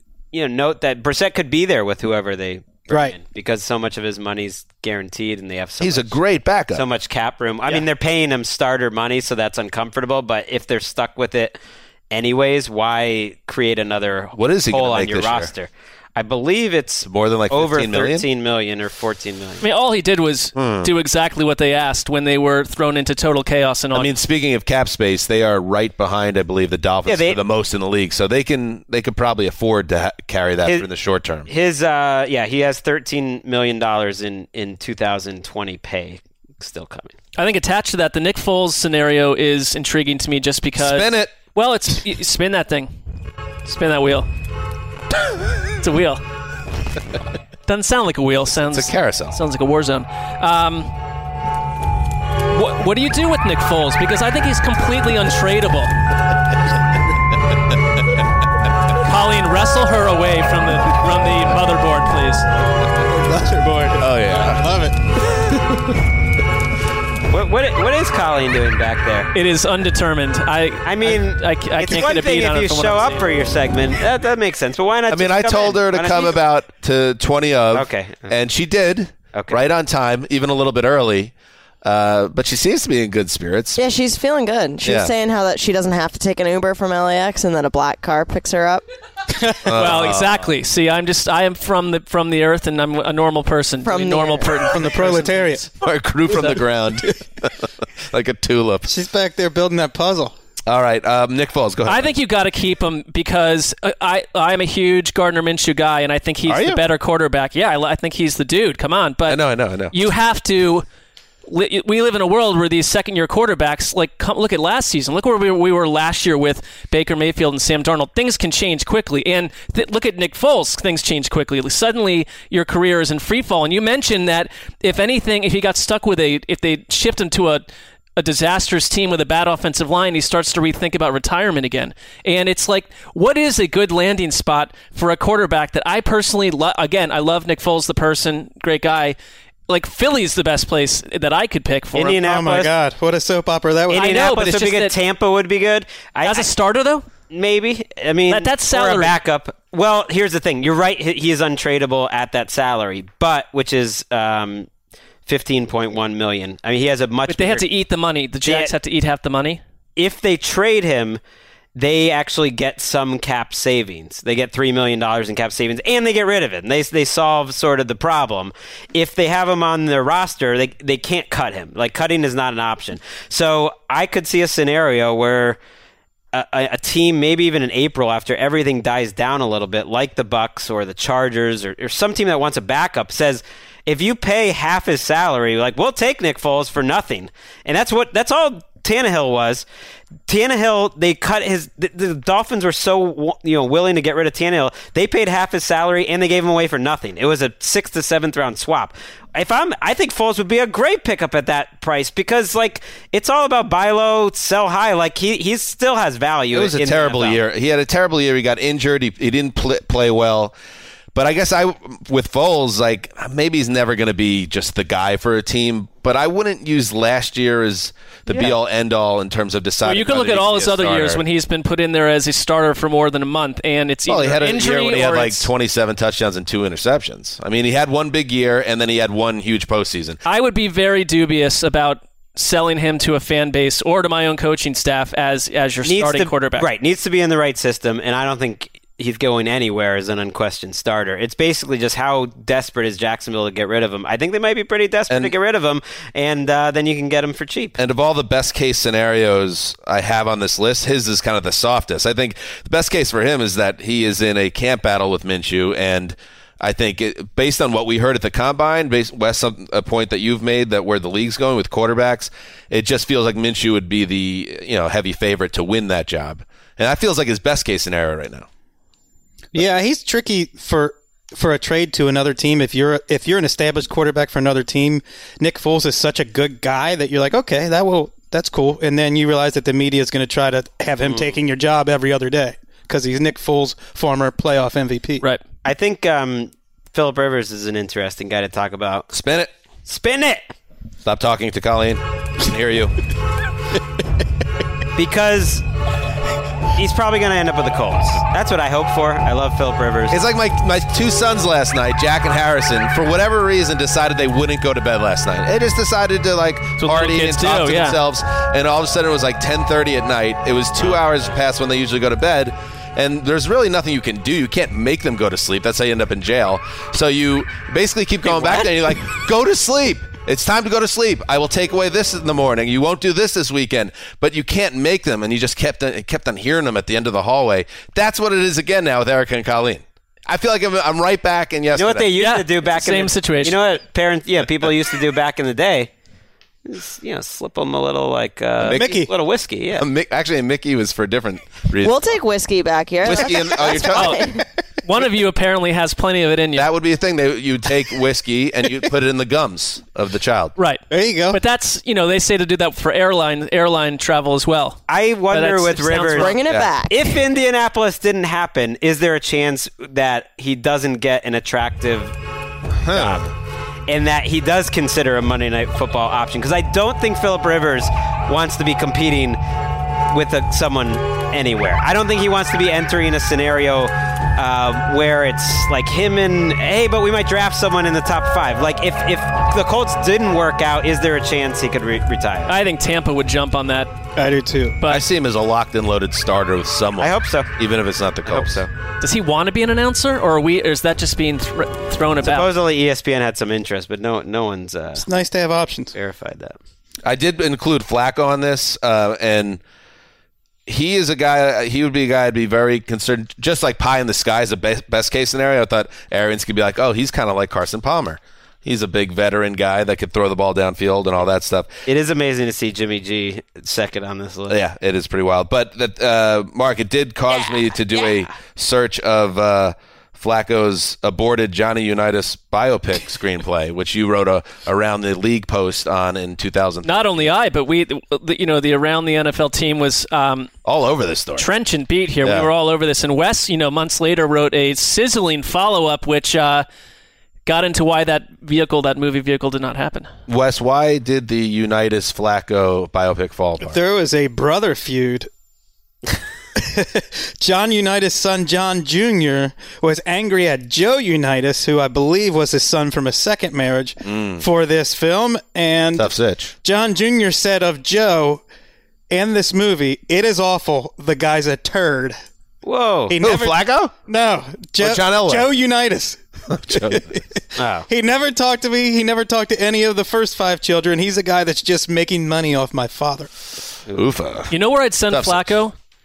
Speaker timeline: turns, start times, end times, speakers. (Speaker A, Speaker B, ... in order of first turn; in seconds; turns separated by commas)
Speaker A: 0.3-6.1, Speaker B: 2.9-3.2, Speaker C: 5.8-6.8, Speaker A: 6.7-11.6, Speaker A: 12.1-19.6, Speaker C: 14.4-15.5, Speaker C: 17.0-18.2, Speaker D: 19.6-24.1, Speaker C: 20.6-20.9, Speaker C: 23.9-31.5, Speaker A: 27.1-27.4, Speaker A: 31.5-37.1, Speaker D: 37.4-42.9, Speaker C: 40.8-41.4, Speaker D: 43.7-44.3, Speaker D: 45.8-46.2, Speaker D: 47.7-50.9, Speaker C: 48.6-49.4, Speaker D: 52.5-55.9, Speaker D: 59.0-62.5, Speaker B: 63.0-65.0, Speaker C: 64.0-64.6, Speaker A: 67.3-69.3, Speaker D: 69.3-73.2, Speaker A: 70.9-76.4, Speaker C: 75.1-81.3, Speaker A: 77.7-78.3, Speaker A: 79.3-79.6, Speaker C: 81.8-83.8, Speaker E: 83.8-88.8, Speaker C: 84.8-85.1, Speaker B: 89.3-89.7, Speaker C: 89.7-90.5, Speaker D: 89.7-95.7, Speaker E: 93.8-94.6, Speaker B: 94.7-95.7, Speaker C: 95.8-98.9, Speaker D: 96.3-96.6, Speaker B: 98.9-100.3, Speaker C: 100.7-102.1, Speaker D: 101.9-109.4, Speaker C: 106.5-106.8, Speaker C: 109.3-110.0, Speaker D: 109.9-110.9, Speaker D: 111.5-139.2, Speaker D: 139.7-142.2, Speaker A: 141.9-142.7, Speaker B: 142.2-144.2, Speaker A: 143.9-146.5, Speaker D: 143.9-144.9, Speaker D: 146.2-147.1, Speaker A: 147.3-154.7, Speaker D: 148.3-149.2, Speaker A: 155.3-157.7, Speaker D: 157.3-159.6, Speaker A: 158.4-158.7, Speaker A: 160.0-161.2, Speaker A: 161.8-175.6, Speaker A: 176.3-189.7, Speaker A: 190.3-207.4, Speaker C: 206.5-210.6, Speaker C: 211.1-221.2, Speaker D: 219.8-225.5, Speaker C: 224.1-230.2, Speaker D: 230.3-236.7, Speaker A: 235.8-247.8, Speaker C: 247.8-268.5, Speaker B: 269.5-285.2, Speaker A: 281.0-281.4, Speaker A: 285.6-289.1, Speaker C: 289.1-289.5, Speaker A: 289.9-290.4, Speaker C: 291.1-292.9, Speaker A: 295.0-295.6, Speaker A: 296.8-300.2, Speaker C: 300.1-332.1, Speaker D: 306.8-308.0, Speaker A: 318.2-318.7, Speaker A: 331.7-335.9, Speaker D: 332.2-333.6, Speaker A: 336.6-339.9, Speaker C: 338.6-338.9, Speaker B: 338.7-339.1, Speaker C: 339.8-342.1, Speaker E: 341.8-344.4, Speaker C: 343.0-344.3, Speaker D: 343.8-344.3, Speaker D: 344.8-346.7, Speaker C: 346.6-350.6, Speaker D: 350.6-356.4, Speaker B: 350.9-351.4, Speaker A: 354.9-362.1, Speaker E: 356.2-357.1, Speaker C: 356.4-356.7, Speaker C: 362.8-363.3, Speaker A: 362.9-363.3, Speaker A: 363.9-369.4, Speaker A: 370.1-382.5, Speaker D: 382.5-383.9, Speaker B: 384.2-384.8, Speaker C: 384.9-388.6, Speaker A: 387.0-387.5, Speaker A: 388.3-388.7, Speaker D: 389.0-392.5, Speaker A: 392.2-395.1, Speaker B: 394.9-395.9, Speaker A: 395.9-396.6, Speaker C: 397.0-399.6, Speaker C: 400.7-411.7, Speaker A: 411.9-414.6, Speaker C: 414.5-427.3, Speaker A: 417.9-418.2, Speaker D: 426.9-430.5, Speaker C: 430.6-431.5, Speaker D: 431.4-436.7, Speaker C: 432.2-432.5, Speaker D: 437.5-440.1, Speaker C: 440.3-443.8, Speaker B: 443.6-445.3, Speaker B: 446.6-456.1, Speaker C: 454.0-454.5, Speaker C: 456.0-456.5, Speaker B: 456.6-458.4, Speaker B: 459.1-462.2, Speaker A: 462.6-463.2, Speaker B: 463.1-473.3, Speaker C: 463.2-463.9, Speaker C: 464.8-465.5, Speaker C: 466.5-467.1, Speaker A: 467.6-467.9, Speaker C: 473.9-474.5, Speaker D: 474.5-475.8, Speaker C: 475.1-475.6